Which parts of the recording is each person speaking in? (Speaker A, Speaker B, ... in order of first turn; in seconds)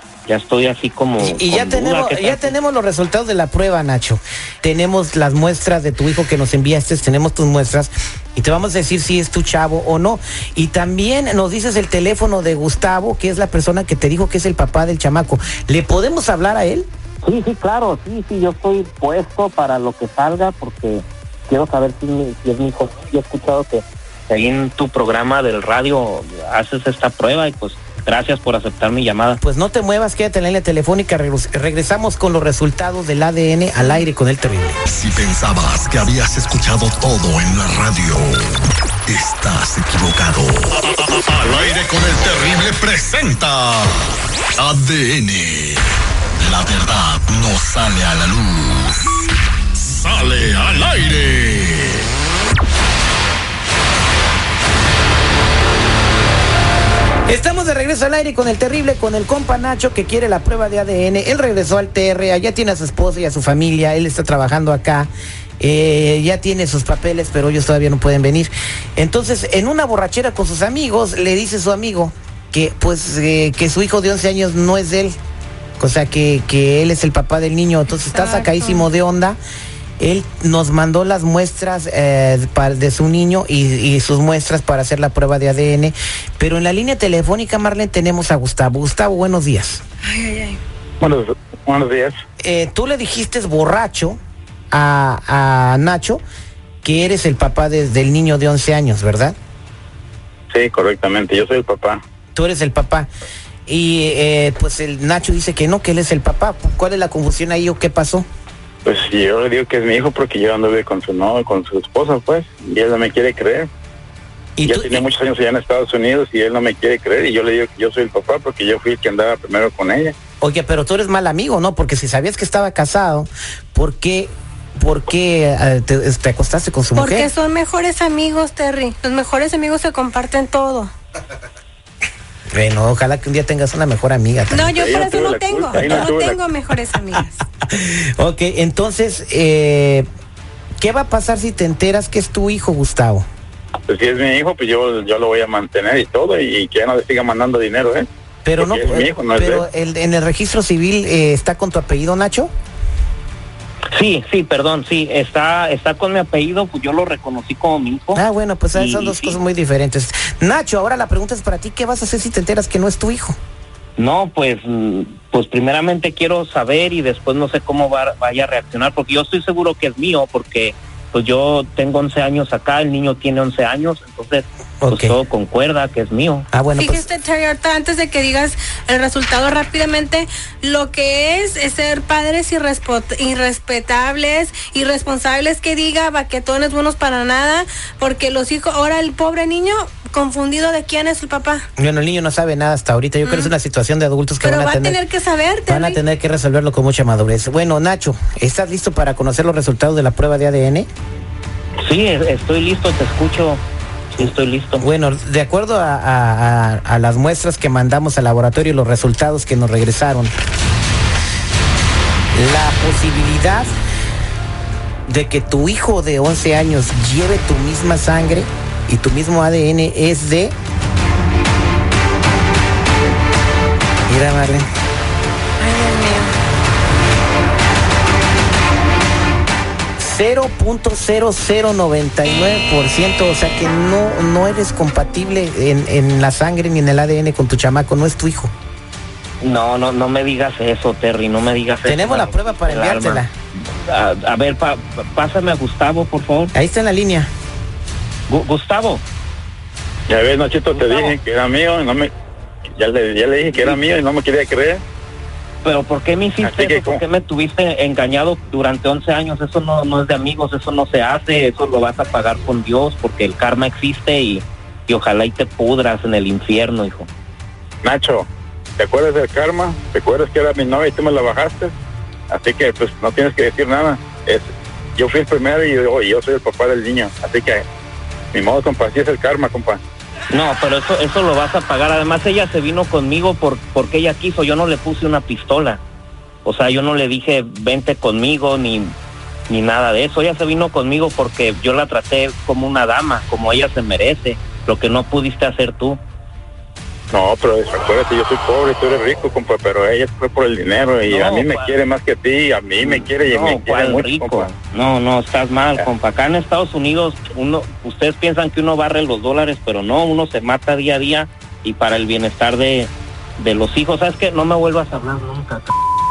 Speaker A: 0.3-2.5, 17.2-29.4, 153.9-158.2, 158.7-159.4, 164.0-176.5, 201.8-203.6, 204.1-204.8, 239.4-243.2, 243.7-246.5, 248.3-249.0, 250.7-251.2, 253.5-253.8, 255.6-267.1, 280.3-285.8, 286.4-288.9, 289.5-296.0, 301.1-301.7, 302.8-315.7
Speaker B: 1.2-16.9, 29.4-34.8, 57.3-65.1, 65.6-75.2, 75.8-79.4, 80.0-89.8, 92.4-94.2, 94.7-96.2, 96.8-99.3, 102.3-103.1, 103.7-108.2, 114.6-115.0, 120.4-127.3, 132.5-134.7, 137.7-140.1, 140.8-143.2, 148.4-152.5, 158.1-163.3, 174.8-175.2, 176.5-177.1, 191.8-195.0, 195.7-200.9, 204.2-210.3, 212.3-213.7, 215.1-220.5, 224.1-224.7, 230.0-238.5, 241.8-243.3, 246.5-247.3
Speaker C: 34.9-38.5, 39.1-43.9, 44.6-45.8, 46.4-49.0, 49.8-52.0
Speaker D: 78.0-78.8, 90.0-90.6, 127.0-130.9, 134.5-137.4, 176.8-191.6, 193.2-193.5, 194.4-196.0, 225.6-226.3
Speaker E: 91.0-92.1, 100.5-102.0, 108.8-113.7, 114.6-120.1, 134.7-136.4, 143.9-148.1, 148.6-149.7, 250.1-252.1, 252.8-254.8, 256.4-257.0, 267.8-268.2, 268.8-271.7, 272.3-277.6, 278.3-279.8, 297.1-304.5